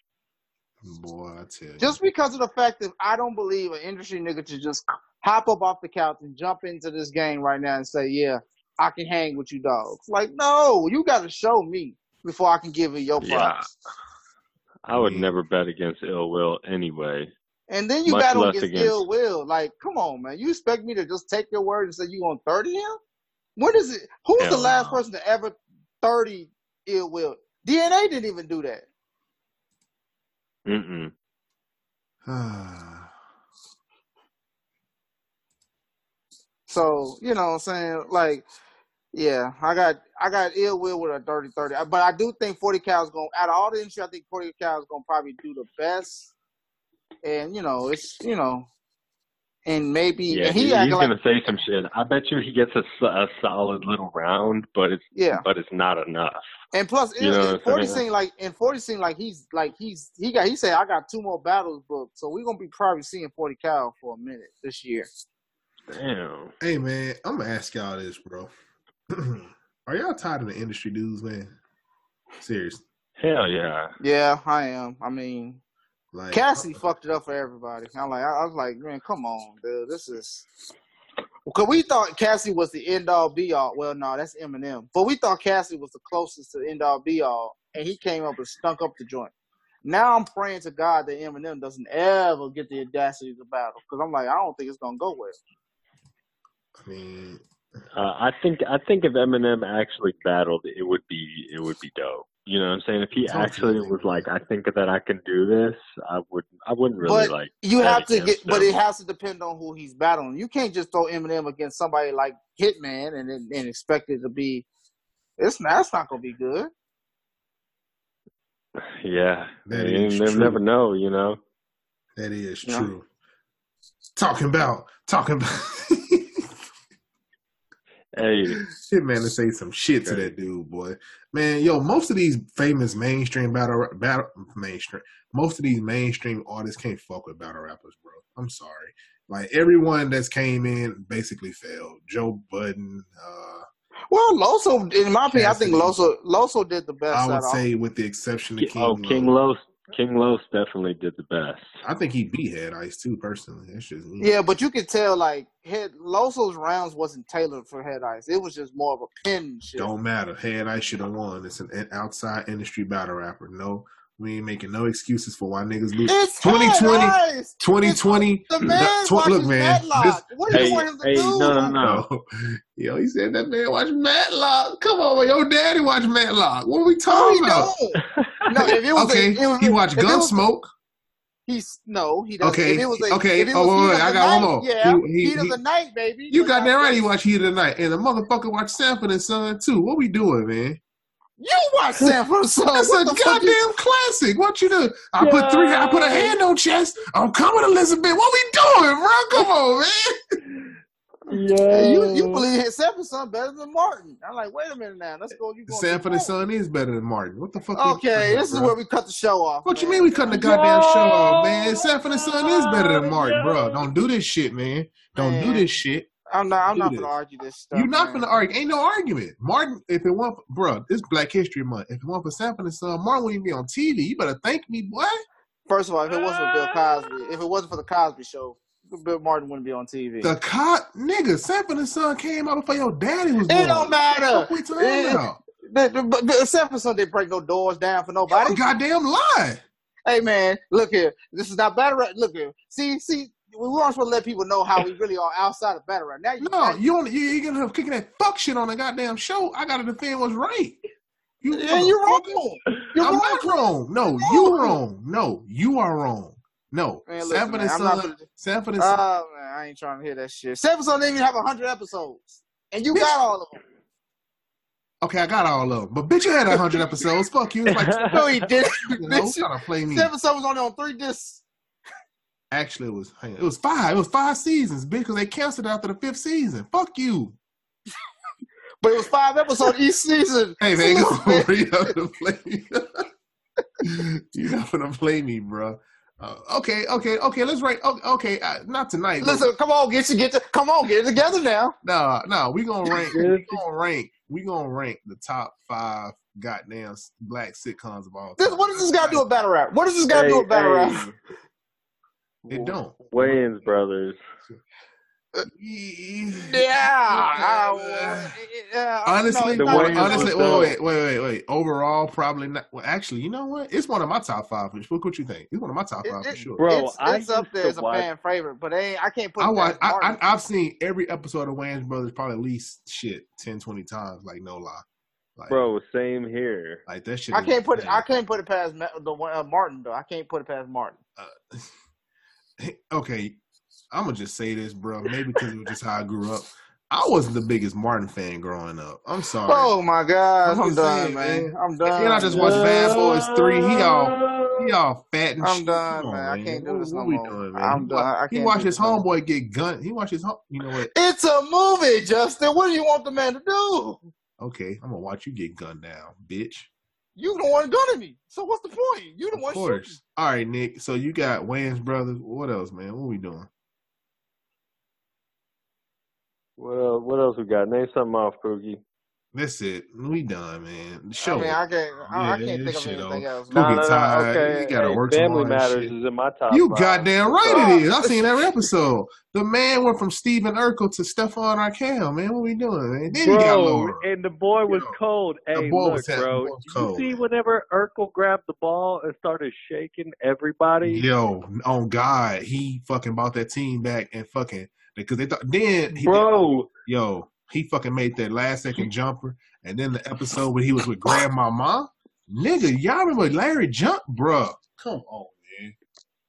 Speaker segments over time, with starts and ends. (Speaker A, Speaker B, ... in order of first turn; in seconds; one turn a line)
Speaker A: 0.8-1.9
Speaker B: 1.8-13.7
Speaker C: 13.2-13.7
Speaker C: 14.8-17.3
Speaker A: 14.9-15.3
Speaker B: 17.7-23.0
Speaker C: 18.1-19.0
Speaker B: 23.6-28.9
Speaker C: 24.4-25.0
Speaker C: 30.6-31.1
Speaker A: 32.2-33.1
Speaker B: 36.7-38.5
Speaker B: 39.1-46.3
Speaker B: 47.2-48.7
Speaker B: 49.6-51.1
Speaker C: 50.3-56.4
Speaker B: 55.1-55.4
Speaker B: 56.7-65.1
Speaker C: 57.2-58.0
Speaker C: 65.9-66.5
Speaker A: 66.6-68.5
Speaker A: 69.1-71.5
Speaker A: 72.4-72.8
Speaker C: 73.2-73.9
Speaker B: 74.0-75.6
Speaker A: 76.1-76.8
Speaker B: 76.3-80.5
Speaker B: 81.5-89.3
Speaker B: 89.8-95.4
Speaker A: 96.8-97.4
Speaker C: 97.9-108.7
Speaker A: 103.2-104.3
Speaker B: 107.0-114.7
Speaker B: 115.4-116.7
Speaker C: 118.8-121.4
Speaker A: 119.7-120.6
Speaker A: 122.2-123.0
Speaker A: 124.2-126.5
Speaker C: 128.1-128.6
Speaker A: 128.5-143.6
Speaker C: 130.0-130.3
Speaker B: 144.1-147.6
Speaker A: 145.3-146.1
Speaker A: 147.1-149.3
Speaker C: 148.6-151.8
Speaker A: 151.8-154.3
Speaker B: 154.2-159.9
Speaker A: 159.8-170.8
Speaker B: 166.1-171.7
Speaker C: 170.5-172.0
Speaker A: 171.8-177.7
Speaker B: 177.1-180.4
Speaker C: 178.1-178.7
Speaker A: 178.7-180.7
Speaker B: 181.5-187.0
Speaker A: 182.4-185.6
Speaker A: 186.3-190.8
Speaker B: 191.4-193.6
Speaker A: 192.7-200.1
Speaker C: 195.2-196.4
Speaker C: 201.3-202.4
Speaker B: 201.7-206.3
Speaker A: 205.7-208.7
Speaker B: 207.7-210.4
Speaker A: 209.6-216.1
Speaker C: 210.3-213.9
Speaker B: 215.2-215.7
Speaker B: 216.3-218.2
Speaker A: 216.7-217.1
Speaker A: 217.7-225.2
Speaker B: 225.7-230.3
Speaker A: 230.2-235.4
Speaker B: 233.5-238.6
Speaker A: 238.3-239.6
Speaker B: 240.1-246.8
Speaker A: 246.4-250.8
Speaker A: 251.4-252.3
Speaker B: 251.5-253.7
Speaker A: 253.0-259.0
Speaker B: 254.2-254.8
Speaker B: 257.1-258.2
Speaker B: 258.8-263.6
Speaker A: 265.0-270.1
Speaker C: 267.7-268.4
Speaker B: 268.0-271.4
Speaker A: 272.5-277.4
Speaker B: 278.8-281.6
Speaker A: 280.6-283.0
Speaker A: 283.8-289.5
Speaker B: 289.2-291.7
Speaker A: 291.8-299.2
Speaker C: 293.0-293.6
Speaker B: 298.4-301.1
Speaker C: 300.1-301.1
Speaker C: 302.4-304.2
Speaker A: 302.5-303.7
Speaker A: 305.5-308.3
Speaker B: 306.4-310.7
Speaker A: 309.0-316.6
Speaker C: 309.5-310.8
Speaker B: 316.0-320.2
Speaker C: 316.6-318.1
Speaker A: 319.4-324.8
Speaker A: 325.4-325.6
Speaker C: 325.5-326.8
Speaker A: 326.9-328.1
Speaker B: 327.3-330.9
Speaker A: 331.2-331.7
Speaker A: 332.6-333.4
Speaker A: 333.9-339.7
Speaker B: 339.5-343.0
Speaker A: 340.4-350.9
Speaker C: 342.4-344.7
Speaker B: 345.4-349.0
Speaker B: 350.9-354.0
Speaker A: 354.4-356.7
Speaker B: 357.2-360.0
Speaker A: 359.3-363.5
Speaker C: 366.6-368.8
Speaker A: 369.3-375.9
Speaker B: 371.2-373.6
Speaker C: 373.5-377.8
Speaker A: 376.5-384.1
Speaker B: 377.5-378.1
Speaker C: 383.2-391.1
Speaker A: 384.7-385.0
Speaker A: 385.5-387.2
Speaker A: 390.8-396.3
Speaker C: 395.9-396.7
Speaker A: 396.8-405.8